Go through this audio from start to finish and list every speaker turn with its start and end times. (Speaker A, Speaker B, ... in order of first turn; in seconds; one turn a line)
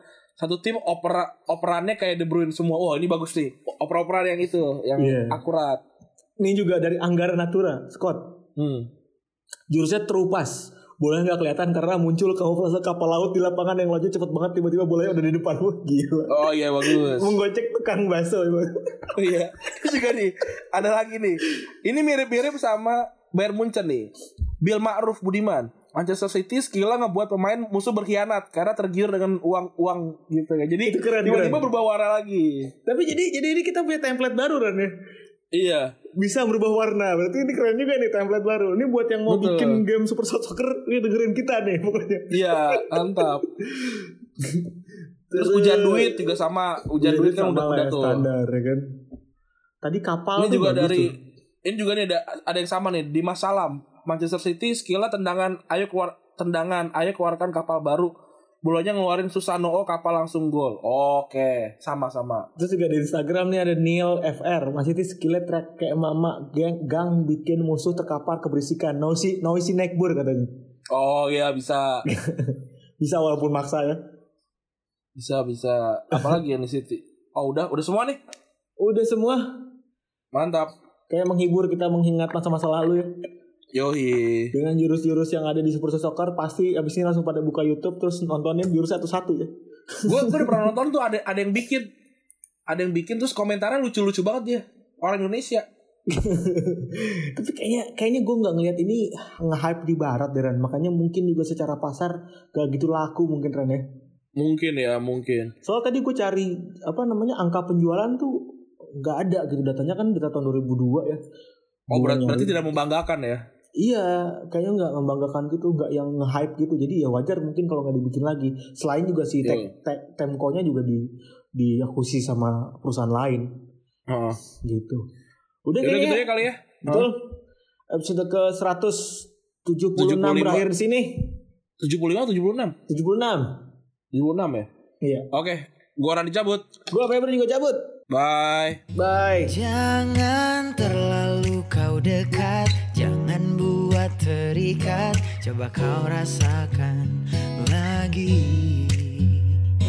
Speaker A: 0.4-5.8
Speaker B: 5.0-5.4
Speaker B: 6.4-8.4
Speaker A: 8.6-8.9
Speaker B: 9.7-19.1
Speaker A: 16.3-17.4
Speaker A: 19.1-32.7
Speaker B: 30.9-31.7
Speaker B: 32.9-34.9
Speaker A: 35.5-36.0
Speaker B: 36.2-44.7
Speaker A: 39.3-39.8
Speaker A: 42.3-43.5
Speaker B: 45.3-46.4
Speaker A: 45.4-48.3
Speaker B: 47.0-48.8
Speaker B: 49.8-51.2
Speaker A: 50.4-58.1
Speaker A: 58.6-62.5
Speaker B: 62.6-70.5
Speaker A: 70.9-72.1
Speaker B: 72.1-74.0
Speaker A: 75.2-78.2
Speaker B: 78.8-79.6
Speaker A: 80.3-80.7
Speaker B: 81.1-83.1
Speaker A: 83.7-84.5
Speaker B: 84.5-90.7
Speaker A: 90.0-91.9
Speaker A: 92.7-95.7
Speaker B: 96.1-103.8
Speaker A: 104.4-105.5
Speaker B: 105.6-108.3
Speaker B: 109.0-111.2
Speaker B: 111.9-112.5
Speaker A: 111.9-113.4
Speaker B: 113.8-123.5
Speaker A: 119.4-119.7
Speaker A: 124.1-124.4
Speaker B: 124.6-125.0
Speaker B: 125.7-126.3
Speaker A: 125.8-127.1
Speaker B: 126.8-127.4
Speaker B: 127.9-131.4
Speaker A: 130.0-130.7
Speaker A: 131.8-132.8
Speaker B: 132.9-133.6
Speaker A: 134.1-134.7
Speaker B: 135.0-135.3
Speaker A: 135.3-136.7
Speaker B: 136.9-137.9
Speaker A: 138.1-138.8
Speaker B: 138.9-139.6
Speaker C: 139.5-149.4